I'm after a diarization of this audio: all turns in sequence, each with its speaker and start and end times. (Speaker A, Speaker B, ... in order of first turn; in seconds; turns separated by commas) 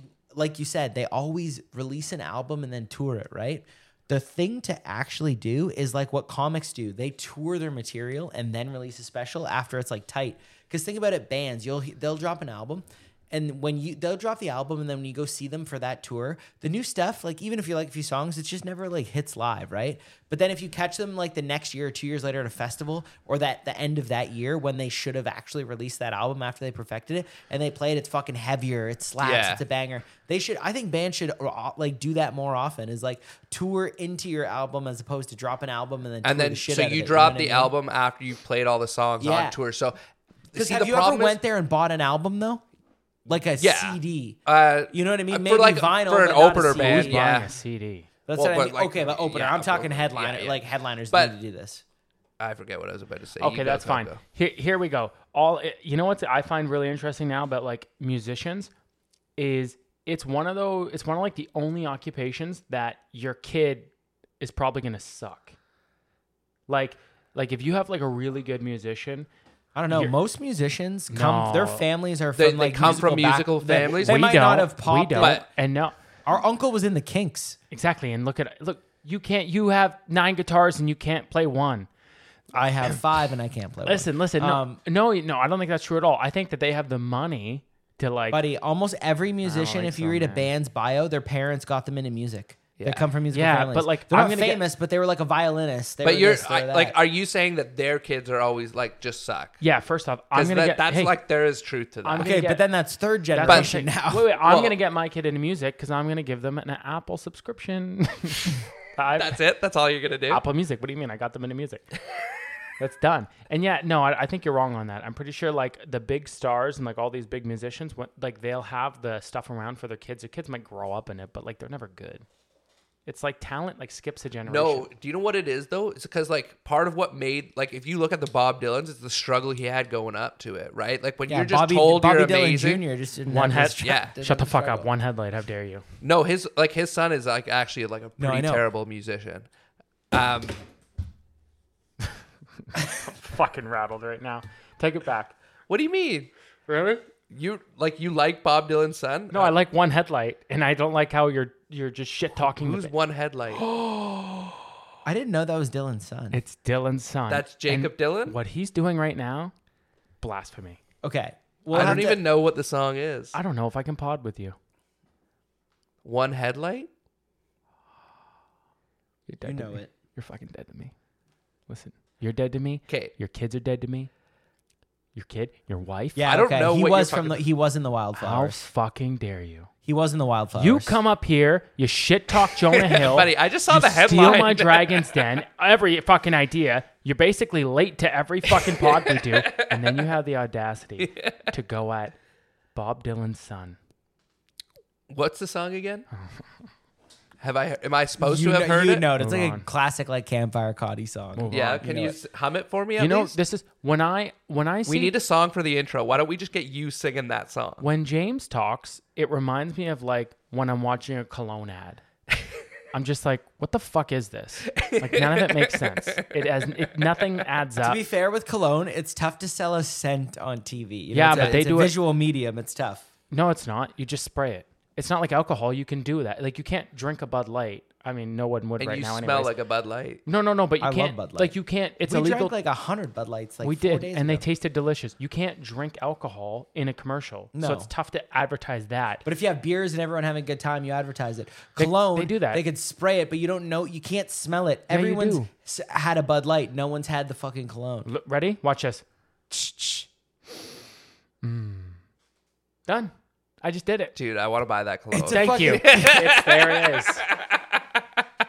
Speaker A: 0.3-37.7, Speaker B: 29.2-29.6, Speaker B: 36.2-40.0, Speaker A: 39.2-39.6, Speaker B: 40.5-41.4, Speaker A: 40.5-42.6, Speaker A: 43.3-44.4, Speaker B: 43.6-47.5, Speaker A: 44.9-47.4, Speaker C: 46.7-48.1, Speaker A: 48.3-51.8, Speaker B: 48.4-51.4, Speaker B: 52.4-54.2, Speaker C: 53.4-58.7, Speaker C: 59.4-65.5, Speaker C: 66.7-69.3, Speaker A: 69.8-75.4, Speaker C: 69.9-70.2, Speaker C: 71.1-71.8, Speaker B: 72.4-74.3, Speaker C: 73.6-76.0, Speaker B: 75.2-75.5, Speaker A: 76.2-77.6, Speaker C: 77.7-81.9, Speaker A: 82.5-84.8, Speaker C: 83.9-88.4, Speaker A: 88.3-97.0, Speaker C: 89.4-90.5, Speaker B: 92.8-93.1, Speaker C: 93.3-94.7, Speaker B: 96.0-99.6, Speaker C: 99.6-101.2, Speaker B: 100.3-102.3, Speaker C: 102.0-102.7, Speaker A: 102.2-104.3, Speaker C: 103.3-109.4, Speaker B: 103.5-103.7, Speaker B: 104.4-104.8, Speaker B: 109.2-110.4, Speaker C: 110.3-111.9, Speaker C: 112.8-122.2, Speaker C: 123.1-124.9, Speaker B: 124.5-132.8, Speaker A: 131.3-134.9, Speaker C: 133.3-135.8, Speaker B: 133.8-134.2, Speaker B: 136.0-139.5, Speaker A: 138.2-138.6, Speaker B: 140.1-140.6, Speaker C: 142.7-145.3, Speaker B: 145.7-146.3, Speaker C: 146.7-147.0, Speaker B: 147.3-149.6, Speaker C: 149.3-152.9, Speaker B: 152.4-153.7, Speaker A: 155.1-156.4, Speaker C: 156.3-159.5, Speaker B: 157.3-158.4, Speaker C: 160.2-160.8, Speaker A: 161.0-162.2, Speaker B: 161.7-163.4, Speaker C: 163.3-164.6, Speaker B: 166.0-166.9, Speaker C: 169.3-170.9, Speaker A: 169.4-169.9, Speaker C: 171.7-174.1, Speaker B: 172.9-173.1, Speaker C: 175.2-176.2, Speaker A: 176.2-178.6, Speaker B: 176.2-177.4, Speaker C: 178.2-179.7, Speaker A: 179.8-181.0, Speaker C: 180.6-192.2, Speaker B: 182.7-185.2, Speaker B: 188.5-190.1, Speaker B: 191.0-191.5, Speaker C: 192.7-193.8, Speaker B: 195.1-196.1, Speaker B: 197.4-199.1, Speaker A: 198.2-202.2, Speaker C: 199.2-199.7, Speaker C: 201.3-201.9, Speaker B: 201.5-203.4, Speaker C: 203.0-205.1, Speaker B: 204.9-207.8, Speaker C: 207.8-212.0, Speaker C: 212.9-218.0, Speaker B: 214.7-217.2, Speaker A: 217.8-223.1, Speaker C: 221.1-222.0, Speaker B: 221.3-221.6, Speaker C: 223.3-229.5, Speaker B: 228.8-230.2, Speaker C: 230.3-232.6, Speaker A: 230.8-234.4, Speaker C: 233.6-239.2, Speaker A: 237.5-237.9, Speaker A: 239.2-248.1, Speaker C: 241.8-242.6, Speaker C: 244.9-245.5, Speaker C: 248.1-249.0, Speaker C: 249.6-250.1, Speaker C: 251.4-252.0, Speaker C: 252.9-254.1, Speaker B: 254.2-257.8, Speaker A: 255.1-256.3, Speaker C: 255.3-257.2